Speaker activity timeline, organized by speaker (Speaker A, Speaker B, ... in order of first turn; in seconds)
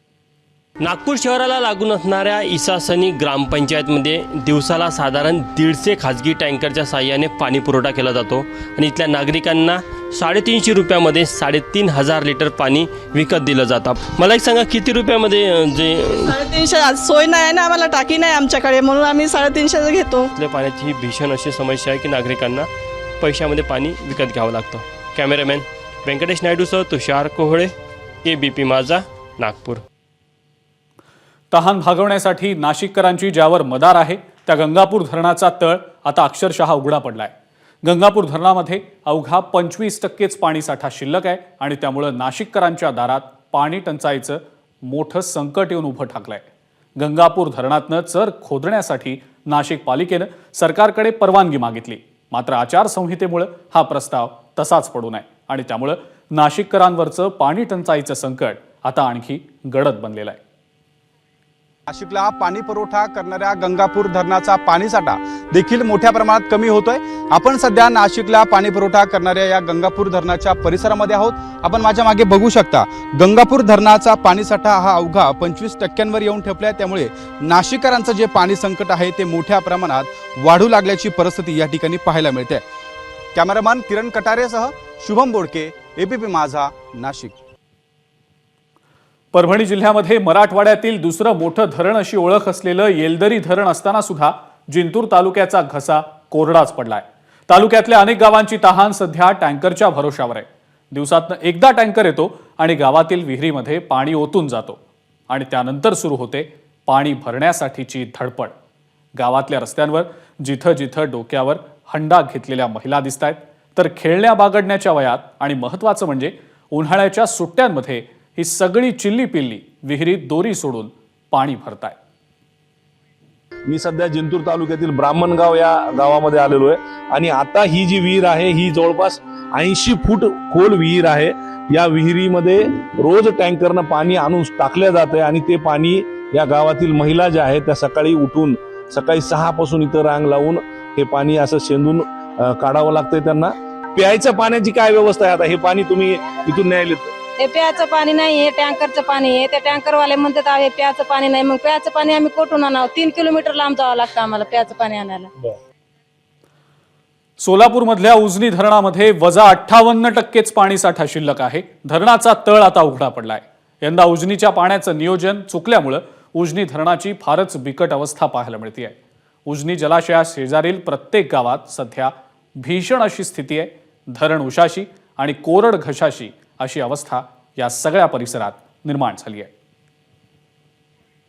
Speaker A: 0.8-16.3, 20.4-22.7, 23.2-27.7, 28.2-29.8
Speaker B: 16.3-20.3
Speaker C: 31.5-37.3, 37.8-46.4, 47.0-60.4, 89.3-104.8, 105.3-108.5, 109.2-122.0, 157.4-168.9, 169.5-179.5
Speaker D: 61.9-82.6, 83.3-87.3
Speaker E: 123.7-147.1
Speaker F: 147.4-155.3